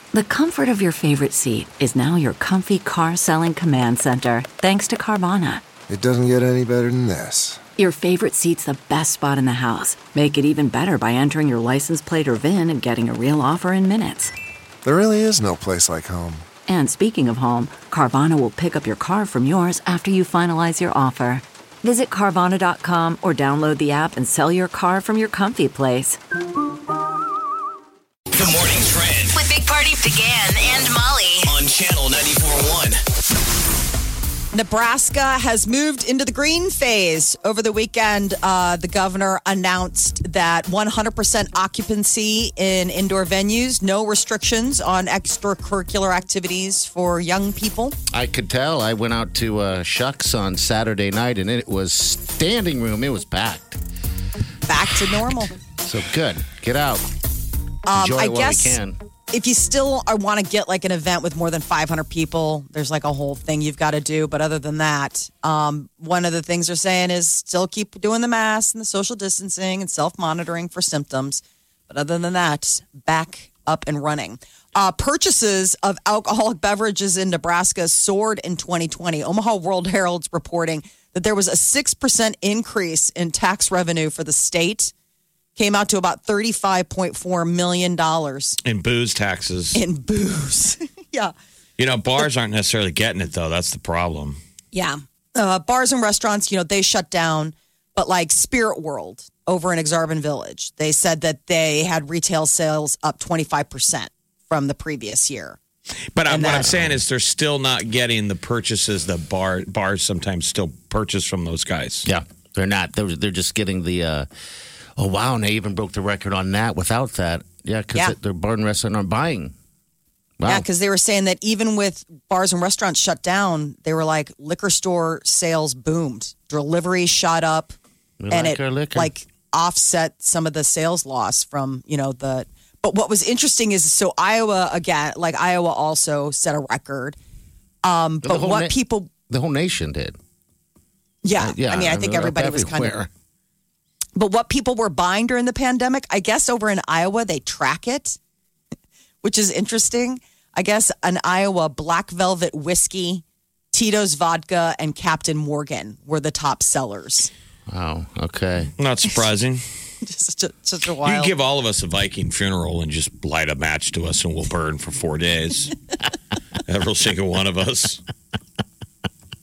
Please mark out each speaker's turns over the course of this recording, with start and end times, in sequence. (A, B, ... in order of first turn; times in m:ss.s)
0:00.1-0:05.6 A
0:05.9-0:07.6 B
0:07.8-0:14.3 A
0:14.8-0:16.4 B
0:16.7-0:26.2 A
0:28.3-0:29.4 C
0:29.3-0:31.5 D
0:31.4-0:33.0 C
0:34.5-0:48.0 E
0:48.1-0:53.8 F
0:54.7-0:55.6 E
0:55.8-0:57.0 F
0:57.8-0:58.8 E
0:57.9-0:59.0 F
0:59.3-1:24.9 E
1:25.6-1:28.6 E
1:28.6-1:29.8 G
1:29.7-1:31.3 E
1:31.8-1:34.4 G
1:34.7-1:45.6 E
1:46.1-1:52.0 G
1:46.3-1:46.7 E
1:46.5-1:46.9 F
1:52.0-1:54.3 F
1:55.0-1:59.5 F
2:00.4-2:00.6 F
2:00.4-2:07.7 E
2:08.2-2:09.1 F
2:08.3-2:17.2 E
2:17.8-2:19.1 E
2:18.2-2:18.8 F
2:19.3-2:20.2 F
2:21.2-2:22.9 E
2:21.4-2:23.1 F
2:24.2-2:28.2 E
2:29.2-2:37.3 E
2:37.7-2:38.7 F
2:38.8-2:39.6 G
2:40.0-2:41.3 E
2:41.0-2:45.7 G
2:46.7-2:48.0 G